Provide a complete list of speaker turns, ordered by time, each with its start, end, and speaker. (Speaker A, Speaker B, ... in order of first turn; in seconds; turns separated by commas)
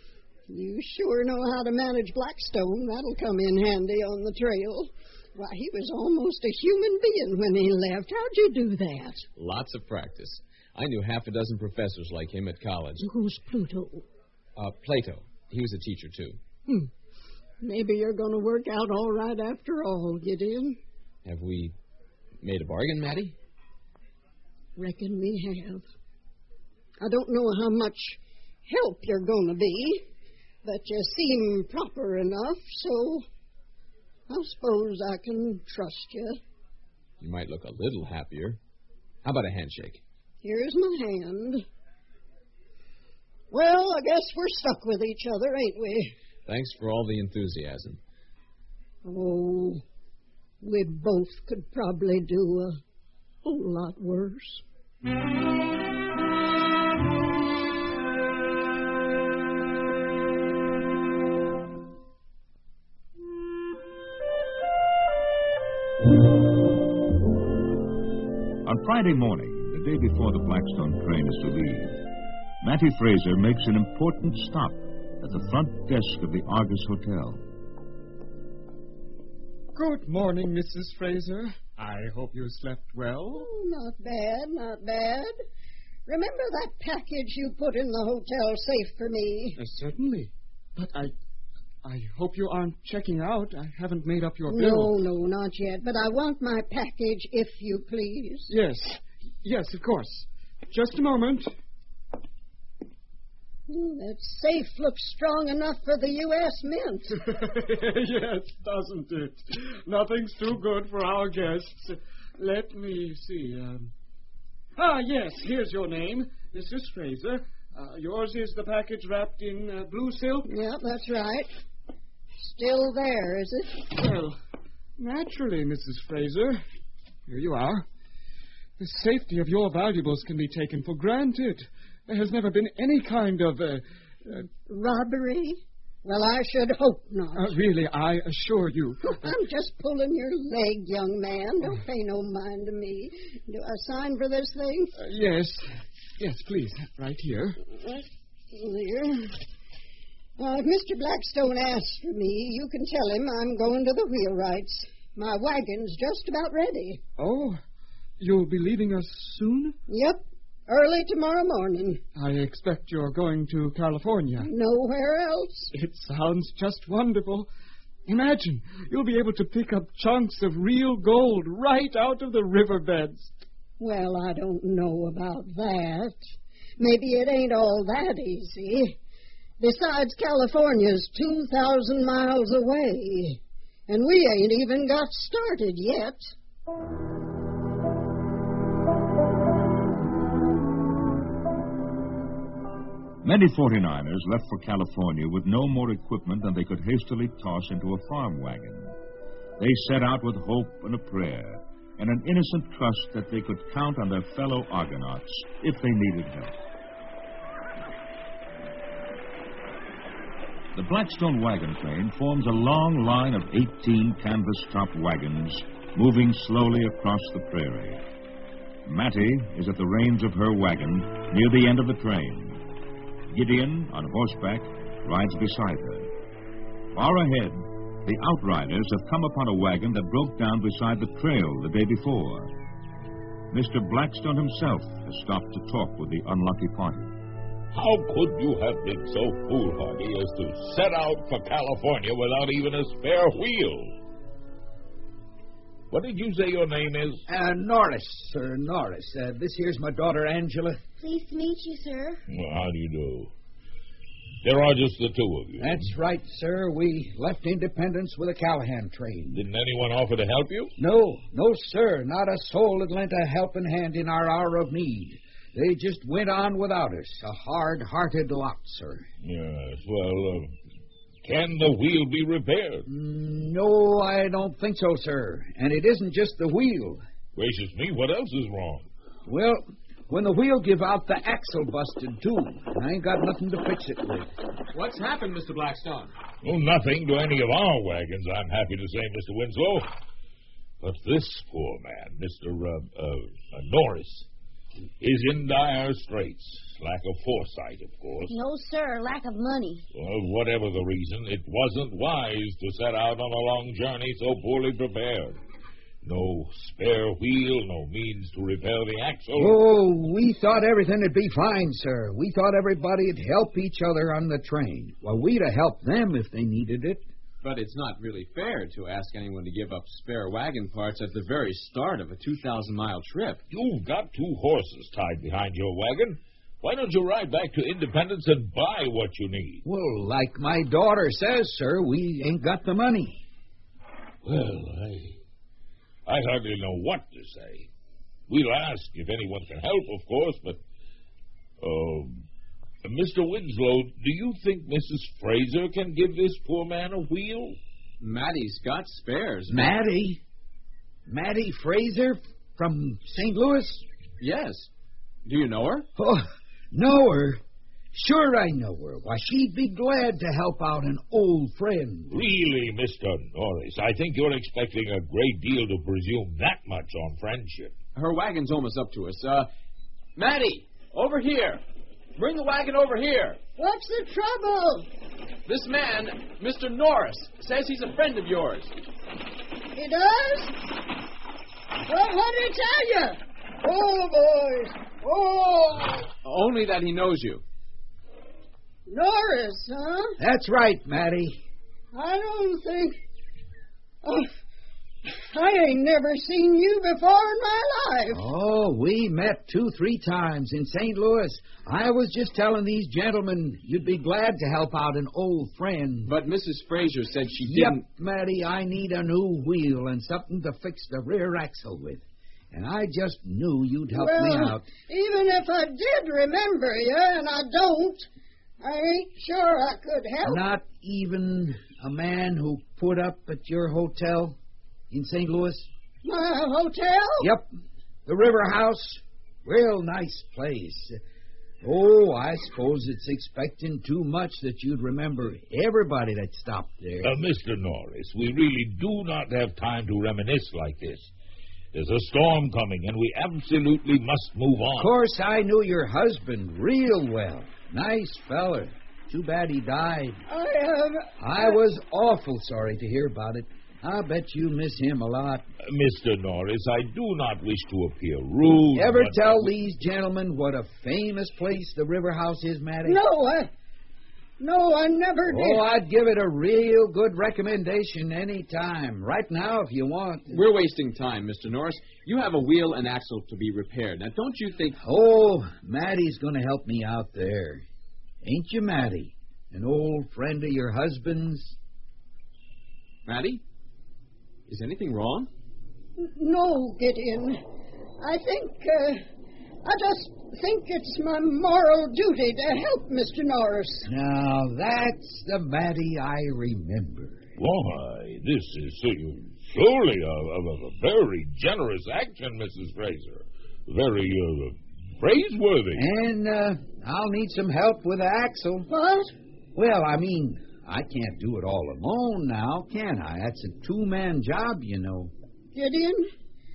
Speaker A: 0.5-9.2, Speaker B: 9.4-13.0, Speaker A: 13.0-14.0, Speaker B: 14.6-16.4, Speaker A: 17.6-20.8, Speaker B: 21.2-21.7, Speaker B: 22.4-23.4, Speaker A: 24.8-25.8, Speaker A: 27.0-30.0, Speaker A: 30.6-33.2, Speaker A: 34.3-36.4, Speaker B: 37.2-38.6, Speaker B: 39.2-40.0, Speaker A: 40.4-41.6, Speaker A: 43.5-46.1, Speaker B: 46.5-48.0, Speaker A: 49.0-49.8, Speaker A: 50.6-52.8, Speaker A: 53.4-54.6, Speaker C: 68.6-72.0, Speaker C: 72.6-77.4, Speaker D: 79.7-83.5, Speaker A: 83.3-85.3, Speaker A: 86.1-89.6, Speaker D: 89.6-91.1, Speaker D: 91.8-95.0, Speaker A: 94.5-98.5, Speaker D: 98.5-101.5, Speaker A: 103.7-107.2, Speaker D: 107.3-113.9, Speaker D: 114.8-120.5, Speaker A: 120.5-121.5, Speaker A: 122.4-123.9, Speaker D: 123.9-124.4, Speaker D: 125.0-126.6, Speaker D: 127.3-127.8, Speaker D: 128.8-133.8, Speaker A: 134.3-137.5, Speaker D: 137.3-139.2, Speaker A: 139.1-144.9, Speaker D: 145.0-147.6, Speaker A: 147.8-149.4, Speaker A: 150.4-157.0, Speaker D: 157.2-157.6, Speaker D: 158.2-159.8, Speaker A: 159.9-162.0, Speaker D: 162.2-164.5, Speaker A: 164.4-165.7, Speaker D: 165.7-167.5, Speaker D: 168.1-173.3, Speaker A: 173.8-176.2, Speaker A: 176.8-179.0, Speaker A: 179.6-186.3, Speaker C: 193.2-198.9, Speaker C: 199.6-206.5, Speaker C: 210.7-218.0, Speaker C: 218.8-222.6, Speaker C: 223.3-226.1, Speaker C: 226.9-232.5, Speaker C: 233.5-237.1, Speaker E: 237.7-243.9, Speaker E: 245.9-247.2, Speaker F: 247.3-250.8, Speaker G: 251.0-252.2, Speaker E: 252.3-253.3, Speaker E: 254.4-255.9, Speaker F: 255.6-259.4, Speaker E: 259.3-260.7, Speaker F: 260.8-269.1, Speaker E: 269.2-270.5, Speaker E: 271.2-272.9, Speaker F: 272.9-277.0, Speaker E: 277.3-278.9, Speaker F: 279.2-284.3, Speaker B: 284.7-286.1, Speaker E: 286.4-289.9, Speaker E: 290.8-294.3, Speaker E: 295.0-298.4, Speaker G: 298.3-299.8, Speaker E: 299.9-305.4, Speaker E: 306.0-309.6, Speaker F: 309.3-317.0, Speaker B: 317.4-323.4, Speaker E: 323.5-329.6, Speaker F: 329.6-333.2, Speaker E: 334.2-335.2, Speaker E: 336.1-337.7, Speaker E: 338.3-340.6, Speaker E: 341.6-342.2, Speaker E: 342.8-347.6, Speaker B: 348.0-349.7, Speaker F: 349.5-350.2, Speaker F: 351.1-353.8, Speaker B: 354.2-354.7, Speaker B: 355.2-355.9, Speaker F: 356.0-357.4, Speaker F: 357.9-362.1, Speaker E: 362.1-367.7, Speaker B: 367.9-369.5, Speaker B: 370.1-371.6, Speaker B: 372.2-373.4, Speaker A: 373.6-374.9, Speaker B: 375.4-378.7, Speaker A: 379.7-380.7, Speaker A: 381.9-386.1, Speaker B: 386.2-387.4, Speaker A: 388.9-390.1, Speaker F: 390.2-391.4, Speaker A: 391.9-392.9, Speaker A: 394.0-394.3, Speaker A: 395.1-398.3, Speaker F: 398.1-406.1, Speaker B: 406.1-407.8, Speaker F: 407.4-414.7, Speaker A: 413.9-418.1, Speaker A: 418.6-420.4, Speaker F: 420.2-424.4, Speaker F: 424.9-425.7, Speaker A: 426.0-427.3, Speaker F: 427.2-427.5, Speaker F: 428.1-431.0, Speaker F: 431.6-437.1, Speaker E: 437.0-441.1, Speaker E: 441.7-444.9, Speaker F: 444.8-450.2, Speaker A: 450.3-451.5, Speaker F: 451.2-455.4, Speaker E: 455.6-459.5, Speaker F: 458.7-463.0, Speaker A: 462.8-463.5, Speaker A: 464.4-465.6, Speaker F: 465.2-470.4, Speaker B: 470.3-474.8, Speaker F: 474.8-477.6, Speaker F: 478.2-481.5, Speaker B: 483.1-483.4, Speaker B: 484.5-485.3, Speaker A: 486.0-487.4, Speaker A: 488.0-489.0, Speaker A: 489.6-493.9, Speaker F: 493.9-497.2, Speaker E: 497.4-505.8, Speaker F: 505.7-508.7, Speaker A: 508.7-509.1, Speaker F: 509.5-515.1, Speaker A: 515.5-516.1